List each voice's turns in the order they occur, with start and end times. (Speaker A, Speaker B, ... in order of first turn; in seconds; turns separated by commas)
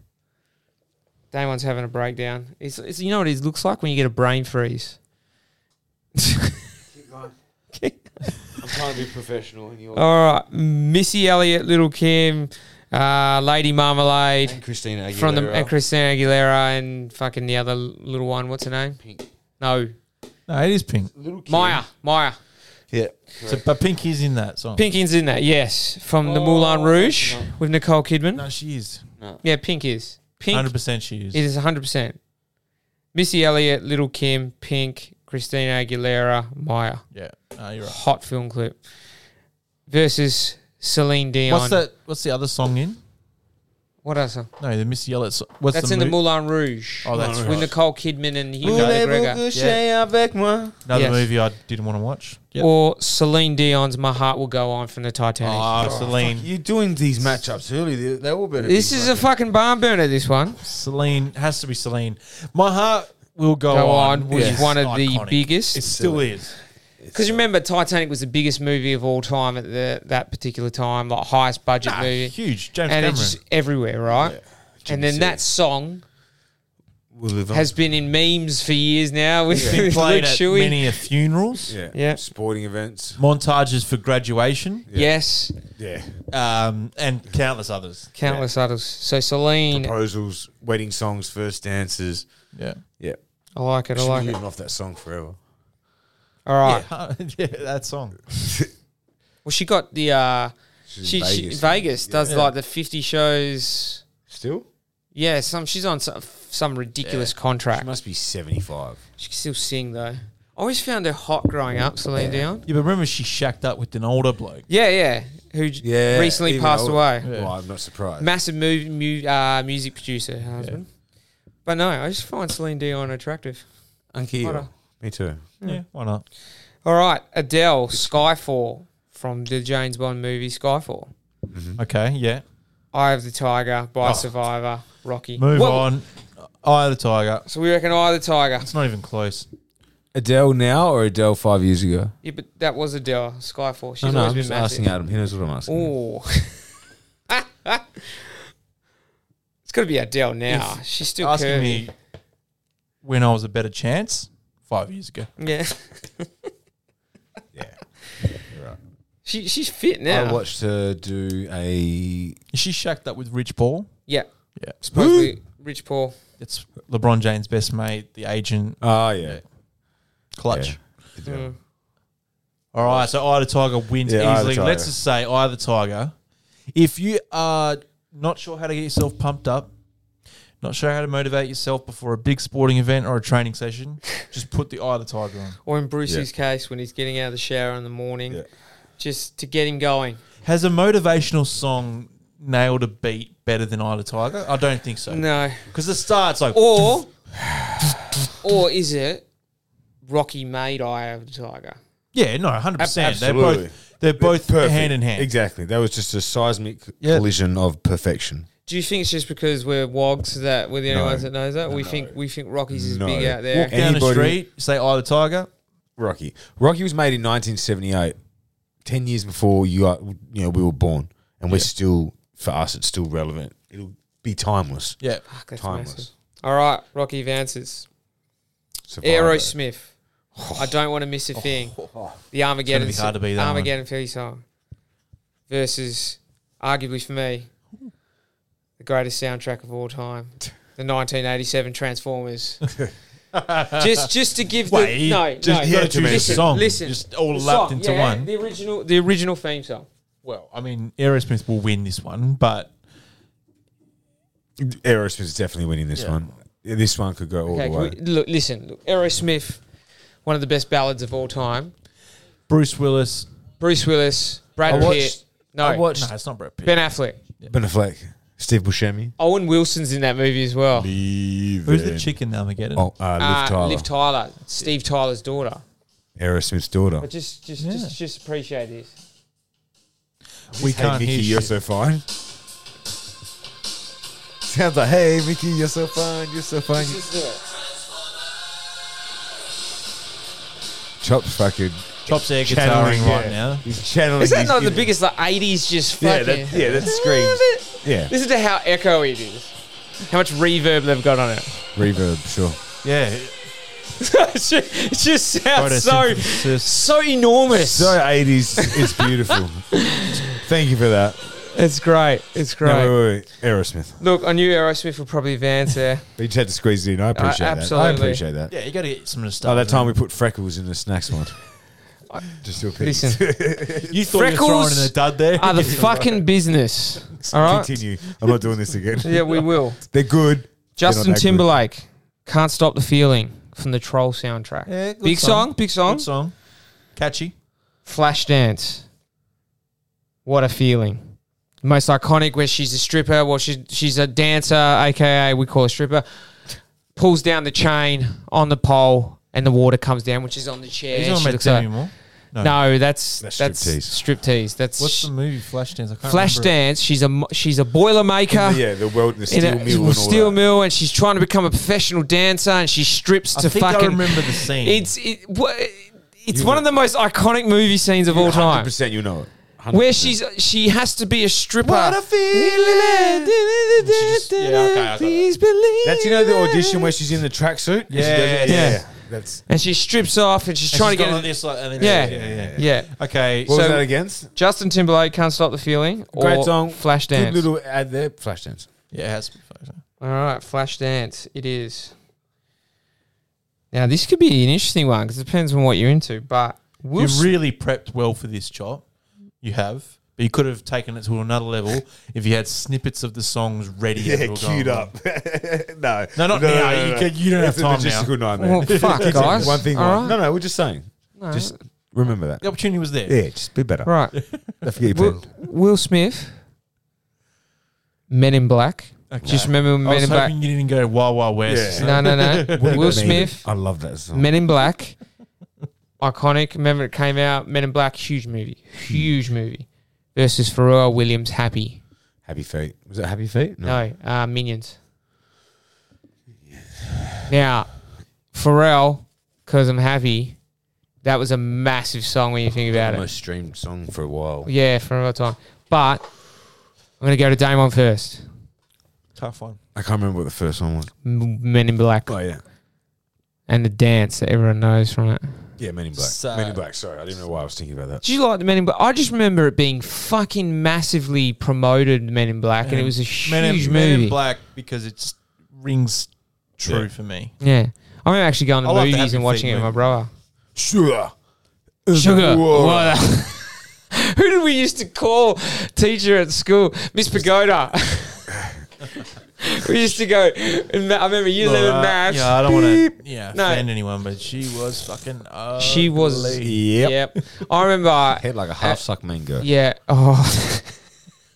Speaker A: 1.3-5.0, Speaker A: 6.2-6.6, Speaker B: 6.9-7.3, Speaker A: 7.7-8.1, Speaker B: 8.6-10.1, Speaker A: 9.9-14.6, Speaker B: 14.4-15.7, Speaker A: 15.1-19.0, Speaker A: 19.6-19.9, Speaker C: 20.5-21.1, Speaker B: 21.1-21.8, Speaker A: 21.5-22.4, Speaker B: 22.9-23.6, Speaker C: 23.4-24.8, Speaker A: 24.8-28.4, Speaker B: 26.2-27.5, Speaker C: 28.4-29.0, Speaker A: 29.4-30.7, Speaker C: 30.5-31.4, Speaker A: 31.3-32.2, Speaker A: 33.1-37.0, Speaker C: 37.1-38.0, Speaker A: 37.8-38.8, Speaker A: 39.9-41.8, Speaker C: 41.5-43.0, Speaker A: 44.0-44.5, Speaker C: 44.6-46.2, Speaker A: 45.7-49.4, Speaker C: 47.0-47.7, Speaker B: 47.1-47.7, Speaker B: 48.6-50.8, Speaker C: 48.6-49.0, Speaker C: 49.5-49.8, Speaker C: 50.9-52.7, Speaker A: 50.9-51.3, Speaker A: 52.6-56.1, Speaker C: 55.4-56.5, Speaker B: 55.8-59.3, Speaker A: 58.6-60.6, Speaker C: 60.6-66.5, Speaker A: 63.7-65.8, Speaker B: 64.3-64.7, Speaker B: 65.8-66.3, Speaker B: 67.0-67.4, Speaker A: 67.1-72.3, Speaker C: 71.8-73.4, Speaker A: 72.9-76.0, Speaker B: 74.2-75.4, Speaker B: 77.1-77.7, Speaker A: 77.5-80.9, Speaker B: 79.5-79.8, Speaker C: 79.6-81.7, Speaker B: 81.7-83.2, Speaker A: 81.9-82.2, Speaker C: 83.2-84.9, Speaker A: 84.9-85.5, Speaker B: 85.8-86.2, Speaker C: 86.3-88.1, Speaker A: 88.2-89.9, Speaker B: 88.2-88.5, Speaker B: 89.7-92.3, Speaker C: 92.5-92.8, Speaker A: 93.6-94.4, Speaker B: 93.9-95.4, Speaker A: 96.5-96.9, Speaker C: 96.6-98.2, Speaker A: 99.4-104.0, Speaker B: 100.9-102.3, Speaker C: 102.2-102.5, Speaker B: 104.3-104.7, Speaker A: 105.1-107.9, Speaker B: 107.0-109.0, Speaker A: 109.2-112.6, Speaker B: 112.2-112.4, Speaker C: 112.7-114.7, Speaker A: 114.7-117.3, Speaker B: 115.8-118.3, Speaker C: 117.2-117.5, Speaker A: 118.2-120.9, Speaker A: 121.6-123.6, Speaker B: 124.1-125.4, Speaker A: 124.4-124.7, Speaker C: 125.6-126.2, Speaker A: 126.8-131.1, Speaker B: 131.5-131.8, Speaker C: 131.8-132.4, Speaker A: 132.9-135.9, Speaker C: 134.0-134.3, Speaker C: 135.4-136.1, Speaker C: 136.6-137.4, Speaker A: 137.5-138.7, Speaker C: 138.6-139.5, Speaker B: 140.1-142.1, Speaker A: 142.2-144.9, Speaker B: 144.0-145.9, Speaker A: 145.7-146.6, Speaker A: 147.3-148.3, Speaker A: 149.7-151.8, Speaker C: 150.5-151.9, Speaker C: 153.0-155.3, Speaker A: 155.4-156.3, Speaker B: 158.5-158.8, Speaker A: 159.2-160.4, Speaker B: 160.1-162.4, Speaker C: 162.5-163.9, Speaker A: 164.8-166.2, Speaker B: 164.9-165.3, Speaker C: 166.4-169.4, Speaker B: 168.8-169.4, Speaker C: 170.4-170.8, Speaker B: 170.5-171.5, Speaker A: 171.2-171.6, Speaker C: 172.7-176.1, Speaker B: 172.8-173.1, Speaker B: 174.0-174.9, Speaker C: 176.7-179.7, Speaker C: 180.6-185.6, Speaker A: 185.7-188.4, Speaker A: 189.0-190.2, Speaker C: 190.4-196.9, Speaker A: 195.1-195.6, Speaker A: 196.5-197.1, Speaker B: 197.4-198.0, Speaker A: 198.4-199.2, Speaker A: 200.0-201.8, Speaker C: 202.1-205.3, Speaker B: 202.8-208.5, Speaker A: 208.7-213.7, Speaker B: 210.9-212.2, Speaker B: 212.7-214.4, Speaker C: 213.6-215.5, Speaker B: 216.0-218.2, Speaker B: 218.8-225.0, Speaker A: 225.3-227.9, Speaker B: 225.6-226.1, Speaker B: 228.9-229.5, Speaker A: 229.0-229.9, Speaker B: 230.3-230.7, Speaker A: 230.5-231.7, Speaker A: 232.3-234.4, Speaker C: 232.7-233.7, Speaker A: 235.5-237.5, Speaker A: 238.8-242.6, Speaker C: 243.3-244.1, Speaker A: 243.7-249.9, Speaker C: 244.7-248.3, Speaker B: 245.4-246.5, Speaker C: 250.2-252.7, Speaker B: 254.6-257.9, Speaker A: 257.5-259.6, Speaker A: 260.2-261.7, Speaker C: 262.5-263.3, Speaker A: 263.6-265.9, Speaker B: 264.6-266.1, Speaker C: 264.6-265.0, Speaker C: 265.9-266.8, Speaker A: 266.6-267.2, Speaker B: 267.5-269.1, Speaker A: 269.2-270.9, Speaker B: 270.8-272.1, Speaker C: 271.6-272.9, Speaker B: 272.8-273.9, Speaker A: 273.2-275.6, Speaker B: 276.2-277.1, Speaker A: 277.0-278.9, Speaker C: 277.6-278.0, Speaker B: 280.5-282.0, Speaker C: 280.5-281.5, Speaker B: 284.4-287.1, Speaker A: 286.9-287.4, Speaker B: 291.0-294.9, Speaker C: 292.1-293.6, Speaker A: 294.2-299.5, Speaker B: 296.0-298.1, Speaker C: 296.5-296.9, Speaker A: 300.1-301.6, Speaker B: 301.8-302.6, Speaker C: 302.8-303.4, Speaker A: 304.0-308.0, Speaker C: 305.5-306.8, Speaker B: 307.5-309.7, Speaker A: 308.6-309.1, Speaker A: 309.7-310.3, Speaker B: 310.3-311.4, Speaker A: 311.5-313.0, Speaker B: 312.6-314.0, Speaker A: 314.0-316.0, Speaker B: 316.2-318.5, Speaker A: 317.1-318.2, Speaker C: 318.5-319.9, Speaker B: 319.4-321.4, Speaker B: 322.3-324.0, Speaker A: 322.8-323.2, Speaker C: 323.9-326.2, Speaker A: 324.1-327.7, Speaker C: 327.1-327.6, Speaker B: 327.4-331.5, Speaker A: 329.0-329.8, Speaker C: 329.1-329.4, Speaker A: 330.8-336.1, Speaker C: 334.7-336.3, Speaker C: 337.0-337.3, Speaker A: 337.9-338.9, Speaker A: 340.2-341.1, Speaker A: 341.6-346.4, Speaker A: 346.9-351.8, Speaker C: 350.9-352.5, Speaker A: 352.4-355.1, Speaker B: 353.2-354.0, Speaker C: 354.8-356.5, Speaker A: 356.0-358.6, Speaker B: 358.3-360.4, Speaker A: 359.3-368.7, Speaker C: 363.3-364.9, Speaker B: 366.3-366.6, Speaker B: 368.1-370.2, Speaker A: 369.7-376.9, Speaker C: 371.6-373.2, Speaker C: 373.8-375.3, Speaker B: 375.8-379.4, Speaker C: 377.9-378.8, Speaker A: 378.5-378.9, Speaker A: 379.5-382.9, Speaker C: 380.7-383.5, Speaker B: 381.8-382.6, Speaker B: 383.4-384.3, Speaker A: 383.5-387.4, Speaker B: 386.1-388.7, Speaker C: 388.9-389.8, Speaker A: 390.0-391.9, Speaker A: 393.7-397.3, Speaker C: 397.0-398.8, Speaker C: 399.4-404.9, Speaker B: 404.0-412.5, Speaker C: 406.1-409.6, Speaker A: 408.4-410.2, Speaker A: 411.2-411.6, Speaker C: 412.4-413.2, Speaker B: 413.0-413.9, Speaker A: 413.9-414.1, Speaker B: 414.6-415.2, Speaker A: 414.9-416.4, Speaker A: 418.1-420.3, Speaker C: 419.1-423.3, Speaker B: 421.5-424.3, Speaker A: 421.8-423.5, Speaker A: 424.1-425.0, Speaker A: 426.0-431.8, Speaker B: 432.2-433.8, Speaker A: 433.6-434.8, Speaker B: 436.5-437.3, Speaker A: 437.3-437.7, Speaker A: 438.3-440.4, Speaker A: 441.0-443.1, Speaker B: 442.7-444.5, Speaker A: 444.4-446.1, Speaker A: 447.0-448.2, Speaker C: 449.1-449.6, Speaker B: 449.8-450.9, Speaker A: 451.0-452.1, Speaker B: 452.1-452.4, Speaker A: 453.5-455.3, Speaker B: 455.6-458.0, Speaker C: 456.0-456.6, Speaker A: 458.0-464.2, Speaker C: 462.6-467.3, Speaker B: 466.6-466.9, Speaker A: 467.4-470.1, Speaker C: 468.6-469.9, Speaker B: 470.6-471.1, Speaker B: 471.9-473.0, Speaker A: 471.9-478.3, Speaker A: 479.4-483.6, Speaker C: 481.4-486.7, Speaker A: 485.6-488.8, Speaker B: 486.4-486.9, Speaker B: 488.2-489.5, Speaker A: 489.4-490.8